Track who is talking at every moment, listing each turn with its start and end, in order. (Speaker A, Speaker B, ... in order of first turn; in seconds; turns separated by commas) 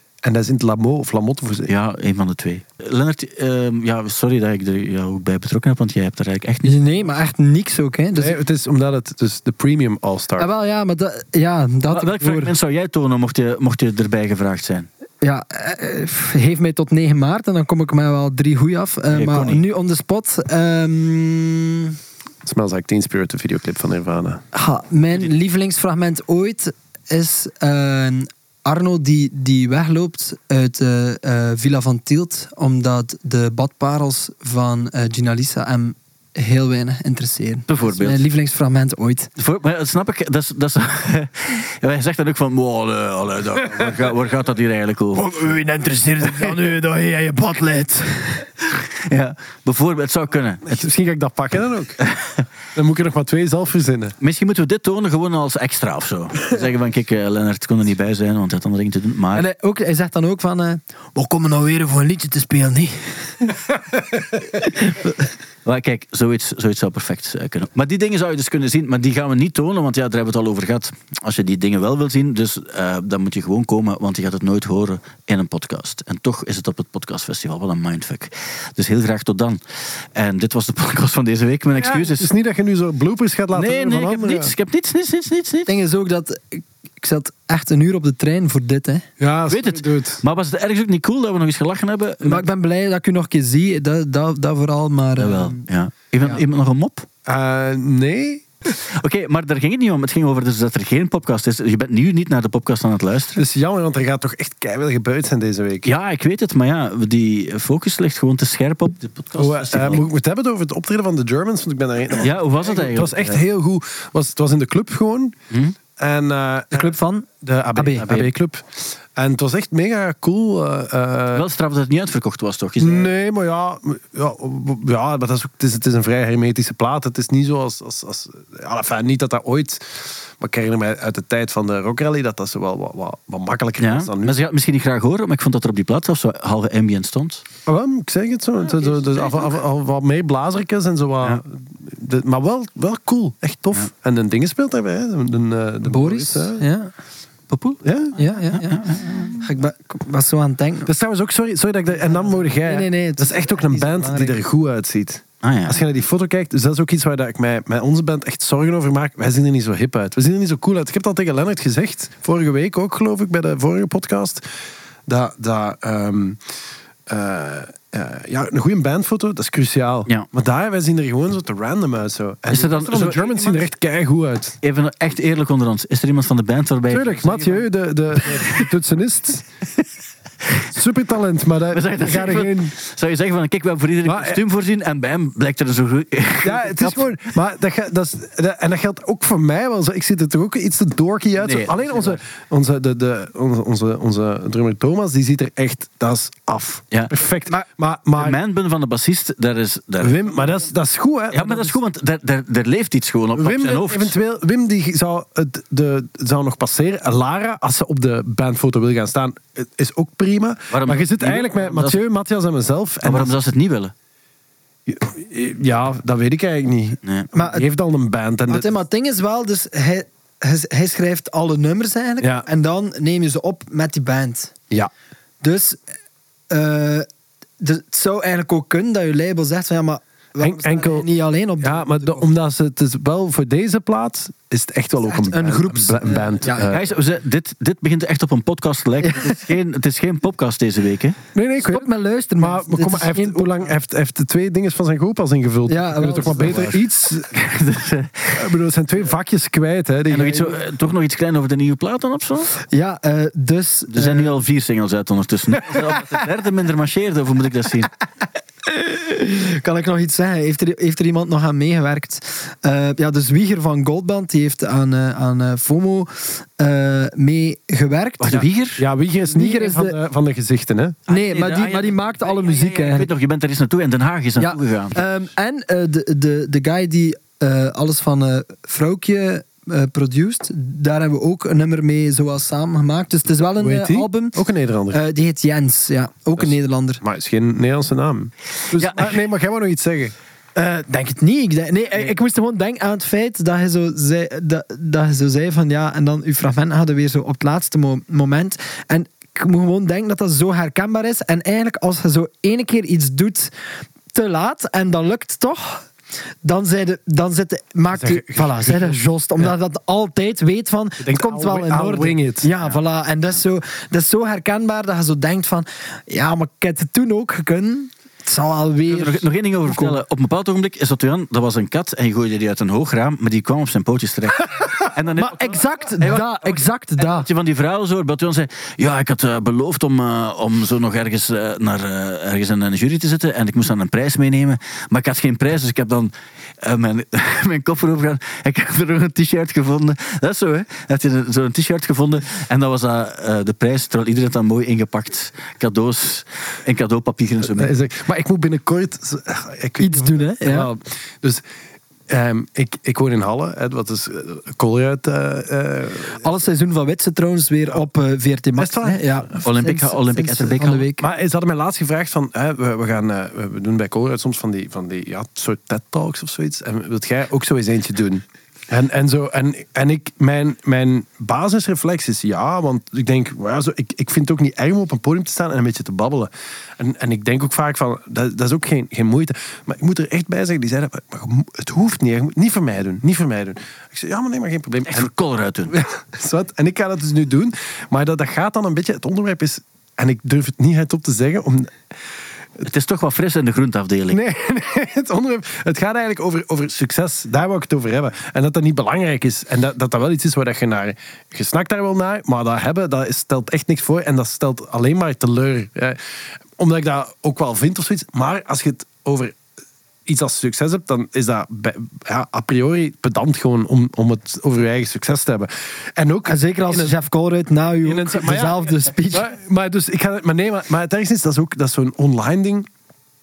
Speaker A: 0.2-1.7, Speaker B: 1.7-6.8, Speaker C: 6.6-8.4, Speaker A: 8.2-10.5, Speaker C: 10.4-12.5, Speaker B: 11.9-14.9, Speaker C: 15.2-22.0, Speaker B: 19.1-19.6, Speaker A: 22.4-24.4, Speaker C: 24.5-39.3, Speaker B: 37.7-38.2, Speaker B: 39.4-45.4, Speaker C: 45.1-48.6, Speaker B: 49.1-50.9, Speaker A: 50.7-52.0, Speaker B: 52.1-52.3, Speaker A: 52.8-54.1, Speaker B: 54.2-59.4, Speaker C: 59.3-63.6, Speaker C: 64.6-65.1, Speaker B: 65.7-79.6, Speaker B: 80.2-82.3, Speaker A: 81.8-84.5, Speaker B: 83.5-85.7, Speaker C: 85.7-89.0, Speaker A: 89.2-90.2, Speaker B: 89.5-92.5, Speaker C: 92.2-95.7, Speaker B: 95.2-97.1, Speaker A: 97.3-98.5, Speaker B: 99.0-103.4, Speaker A: 103.4-105.9, Speaker B: 105.8-110.1, Speaker A: 109.3-115.3, Speaker B: 112.2-113.4, Speaker B: 115.5-115.8, Speaker A: 116.0-121.5, Speaker C: 116.7-118.1, Speaker B: 118.0-118.3, Speaker B: 121.3-123.1, Speaker A: 122.8-134.3, Speaker B: 133.8-137.4, Speaker A: 137.7-146.6, Speaker B: 138.7-139.4, Speaker C: 145.9-146.9, Speaker B: 147.5-149.4, Speaker A: 147.8-148.2, Speaker C: 148.2-150.9, Speaker A: 150.8-164.4, Speaker C: 152.0-154.4, Speaker B: 155.4-155.8, Speaker A: 165.1-166.4, Speaker A: 167.1-174.6, Speaker B: 172.5-173.7, Speaker B: 174.6-177.7, Speaker A: 176.9-179.4, Speaker B: 178.3-178.7, Speaker A: 180.7-182.7, Speaker B: 181.7-187.1, Speaker A: 184.0-184.4, Speaker A: 186.4-198.4, Speaker B: 191.4-192.2, Speaker B: 198.2-200.5, Speaker A: 200.0-201.8, Speaker B: 201.3-204.2, Speaker A: 203.3-213.4, Speaker B: 210.7-212.0, Speaker B: 213.0-213.9, Speaker A: 214.9-218.7, Speaker C: 217.3-217.7, Speaker C: 218.5-224.5, Speaker A: 222.2-222.5, Speaker C: 225.4-225.8, Speaker C: 226.5-227.1, Speaker C: 227.6-232.3, Speaker A: 230.4-231.1, Speaker A: 231.6-236.9, Speaker C: 235.1-236.7, Speaker B: 236.7-241.2, Speaker A: 241.3-247.3, Speaker C: 241.6-243.7, Speaker C: 245.7-246.8, Speaker B: 246.3-248.4, Speaker A: 248.3-250.6, Speaker B: 250.1-252.5, Speaker C: 252.7-254.3, Speaker B: 253.9-257.9, Speaker C: 258.7-268.5, Speaker B: 268.2-268.9, Speaker A: 268.3-271.0, Speaker C: 269.2-270.0, Speaker B: 271.1-275.0, Speaker C: 271.1-273.1, Speaker C: 274.4-287.0, Speaker A: 283.6-285.0, Speaker A: 286.4-290.1, Speaker B: 288.7-289.2, Speaker C: 290.6-303.5, Speaker C: 304.1-305.9, Speaker C: 306.4-320.0, Speaker A: 307.9-309.5, Speaker A: 311.0-312.5, Speaker B: 318.9-347.7, Speaker C: 325.2-327.3, Speaker A: 347.4-351.4, Speaker C: 349.8-350.7, Speaker A: 352.1-356.2, Speaker C: 356.2-361.1, Speaker A: 358.6-359.2, Speaker B: 359.4-360.9, Speaker A: 361.0-385.1, Speaker B: 384.9-385.8, Speaker A: 385.7-391.7, Speaker B: 392.6-394.2, Speaker A: 394.1-406.0, Speaker A: 406.6-409.4, Speaker A: 410.1-416.9, Speaker C: 416.2-419.3, Speaker A: 417.8-422.7